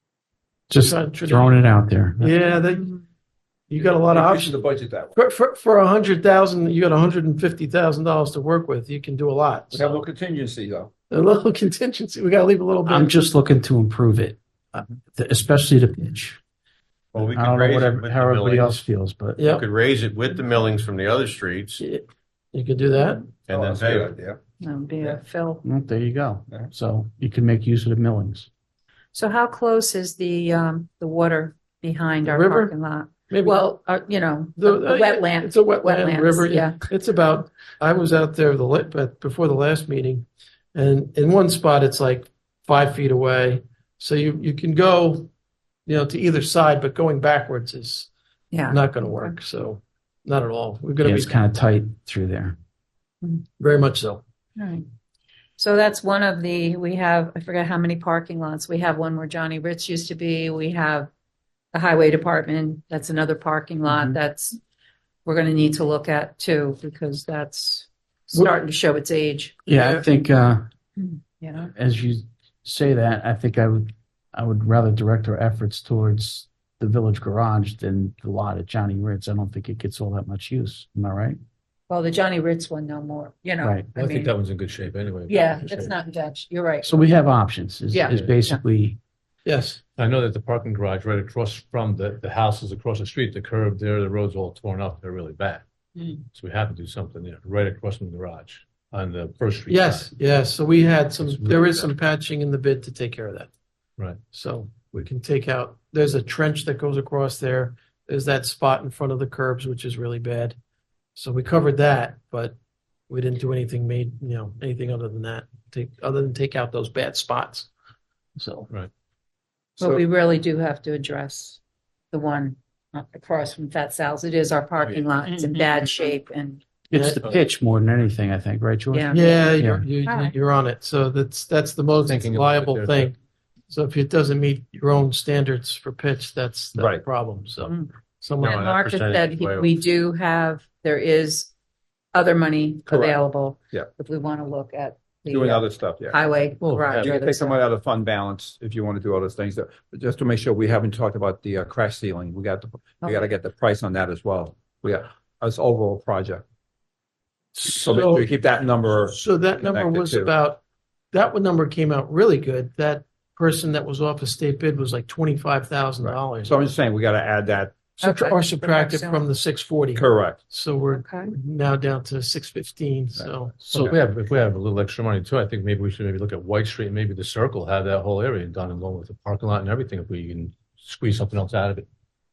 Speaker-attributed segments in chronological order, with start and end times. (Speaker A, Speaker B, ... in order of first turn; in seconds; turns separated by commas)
Speaker A: 0.7-2.5, Speaker B: 0.7-1.6, Speaker B: 2.2-3.0, Speaker B: 3.7-4.5, Speaker C: 4.1-5.2, Speaker B: 5.2-9.8, Speaker C: 9.7-10.9, Speaker B: 11.1-13.2, Speaker A: 12.9-16.4, Speaker C: 17.1-17.4, Speaker D: 17.1-18.8, Speaker A: 17.3-19.4, Speaker B: 19.4-19.6, Speaker D: 19.6-21.7, Speaker C: 20.3-20.6, Speaker B: 21.8-23.3, Speaker C: 23.5-24.4, Speaker E: 23.5-24.1, Speaker D: 23.5-24.1, Speaker F: 24.6-25.6, Speaker A: 25.6-28.5, Speaker F: 29.1-36.9, Speaker B: 32.2-32.7, Speaker B: 33.3-33.8, Speaker B: 34.6-45.3, Speaker B: 45.9-48.1, Speaker F: 48.5-49.4, Speaker B: 48.7-51.3, Speaker A: 51.0-52.6, Speaker B: 53.6-54.2, Speaker F: 54.6-54.9, Speaker F: 55.6-61.1, Speaker F: 61.7-64.6, Speaker A: 63.9-64.2, Speaker F: 65.2-69.6, Speaker B: 69.7-70.0, Speaker A: 69.7-70.7, Speaker F: 71.0-71.7, Speaker A: 71.8-81.4, Speaker F: 81.9-84.3, Speaker A: 83.6-83.9, Speaker E: 83.9-85.9, Speaker F: 85.3-87.0, Speaker A: 86.8-89.0, Speaker F: 87.9-88.6, Speaker B: 89.5-89.8, Speaker E: 90.0-95.6, Speaker E: 96.3-100.1, Speaker B: 99.7-103.5, Speaker E: 101.2-101.8, Speaker B: 104.3-110.6, Speaker B: 111.2-112.5, Speaker B: 113.1-117.7, Speaker B: 118.4-118.7, Speaker F: 119.8-121.6, Speaker F: 122.1-126.6, Speaker A: 126.9-129.8, Speaker B: 126.9-127.2, Speaker F: 128.9-129.5, Speaker B: 129.1-133.2, Speaker F: 130.1-130.3, Speaker E: 132.1-133.1, Speaker B: 133.7-138.6, Speaker F: 137.7-137.9, Speaker C: 138.4-138.7, Speaker D: 138.5-139.7, Speaker F: 138.5-141.5, Speaker F: 142.1-147.6, Speaker C: 142.9-143.2, Speaker C: 145.3-146.2, Speaker E: 146.6-147.1, Speaker C: 147.0-156.4, Speaker B: 157.6-158.3, Speaker C: 157.6-160.3, Speaker B: 159.1-166.7, Speaker C: 166.0-167.9, Speaker B: 168.0-173.9, Speaker F: 168.0-169.3, Speaker C: 169.9-170.4, Speaker F: 170.9-171.3, Speaker C: 173.2-174.0, Speaker E: 173.7-181.9